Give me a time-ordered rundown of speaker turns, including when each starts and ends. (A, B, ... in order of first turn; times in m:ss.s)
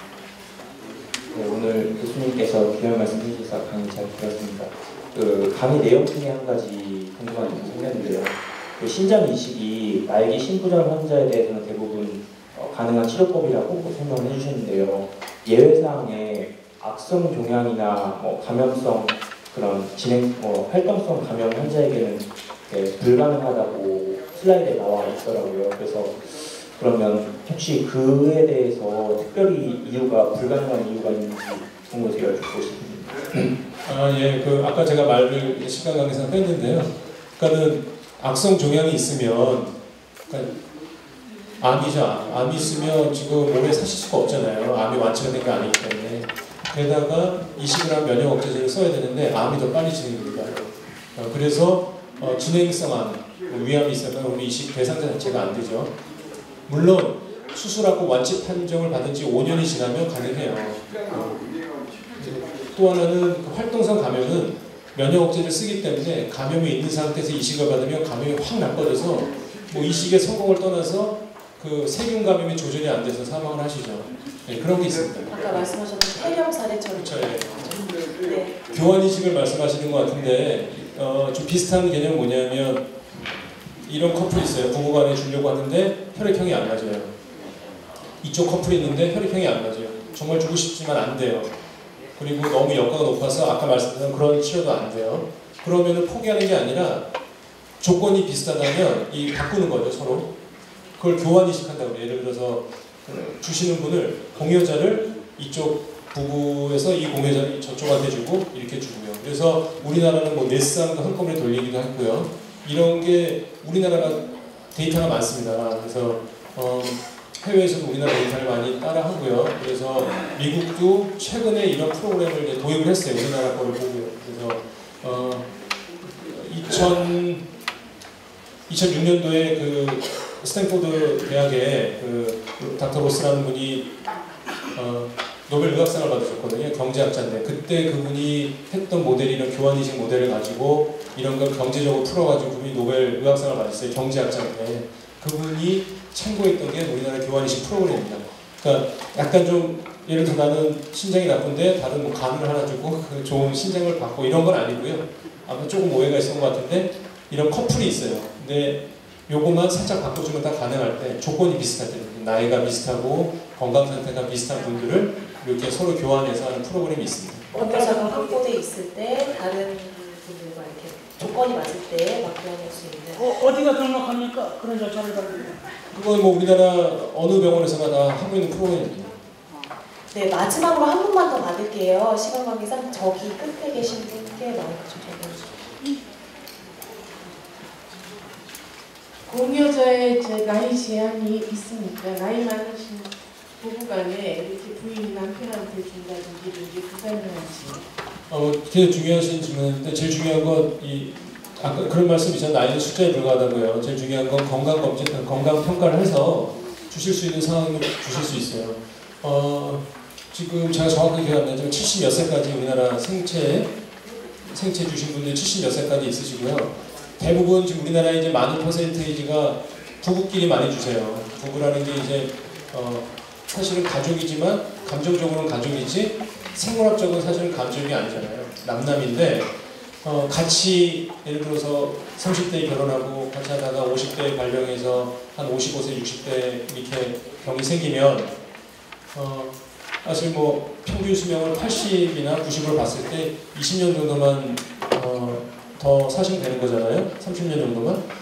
0:01.3-0:33.2 A
0:33.4-0:39.8 B
0:40.3-0:40.6 B
0:41.6-0:55.9 B
0:56.7-1:01.4 B
1:02.2-1:15.3 B
1:15.3-1:18.6 C
1:17.0-1:17.6 B
1:18.7-1:22.9 B
1:23.8-1:27.1 B
1:28.2-1:31.5 B
1:32.2-1:37.0 B
1:37.8-1:40.3 B
1:41.0-2:05.5 B
2:06.0-2:07.4 B
2:08.7-2:13.9 B
2:14.7-2:47.5 B
2:47.6-2:48.4 D
2:47.6-2:53.4 C
2:53.2-2:55.6 D
2:55.9-2:59.2 B
3:00.1-3:05.6 C
3:09.3-3:17.9 E
3:18.3-3:33.7 B
3:34.4-3:49.5 B
3:50.0-3:58.4 B
3:59.1-4:08.0 B